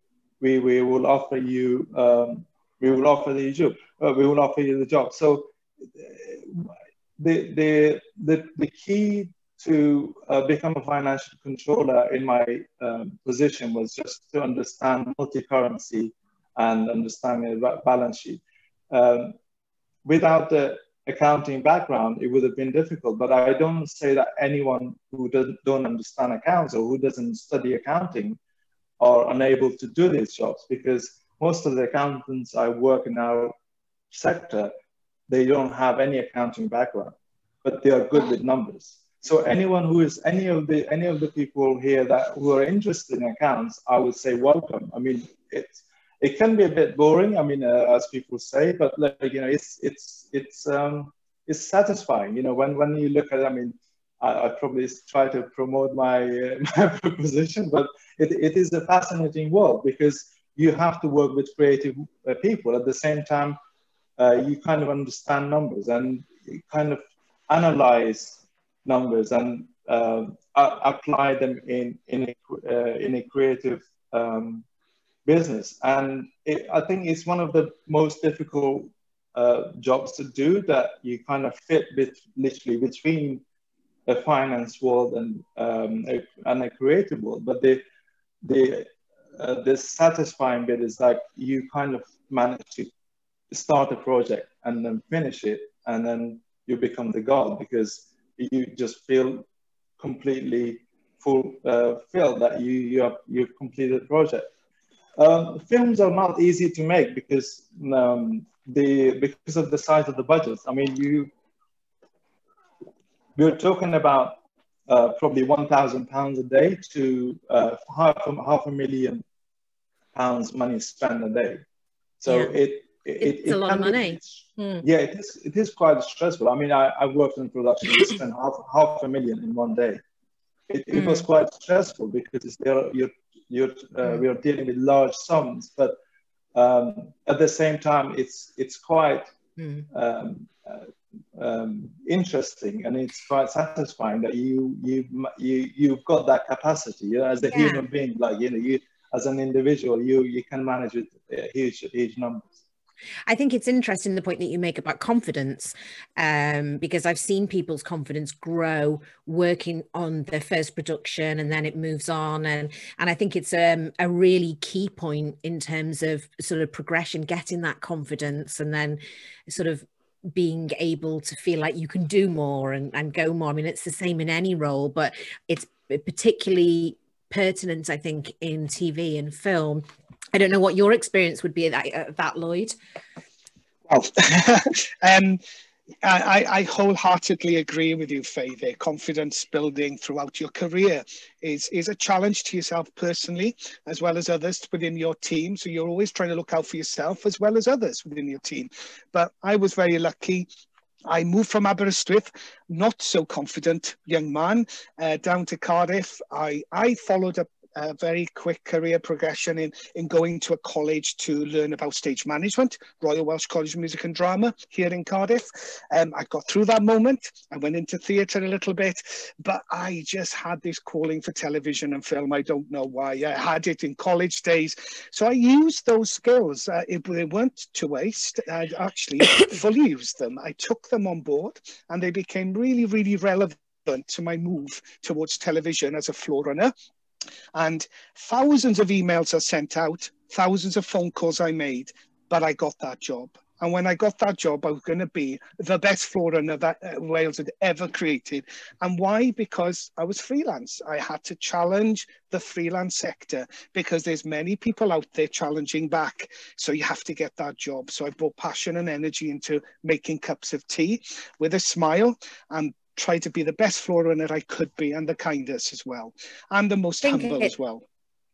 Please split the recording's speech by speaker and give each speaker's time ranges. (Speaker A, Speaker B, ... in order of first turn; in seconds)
Speaker A: 0.4-19.4, 20.1-28.4, 29.0-33.5, 34.1-34.7, 35.3-63.6, 64.2-74.6, 75.2-83.4, 84.1-87.8, 88.4-92.9, 93.5-99.5, 100.0-104.5, 105.2-111.3, 113.4-114.4, 114.9-119.2, 120.1-121.6, 122.2-130.0, 130.7-136.0, 136.5-139.3, 139.9-152.6
Speaker B: 122.3-122.6, 123.2-124.8, 130.9-131.3, 139.6-139.9, 147.5-147.8, 153.3-182.8, 267.0-267.5
Speaker C: 183.9-185.4, 186.0-200.5, 201.1-236.7, 237.5-267.8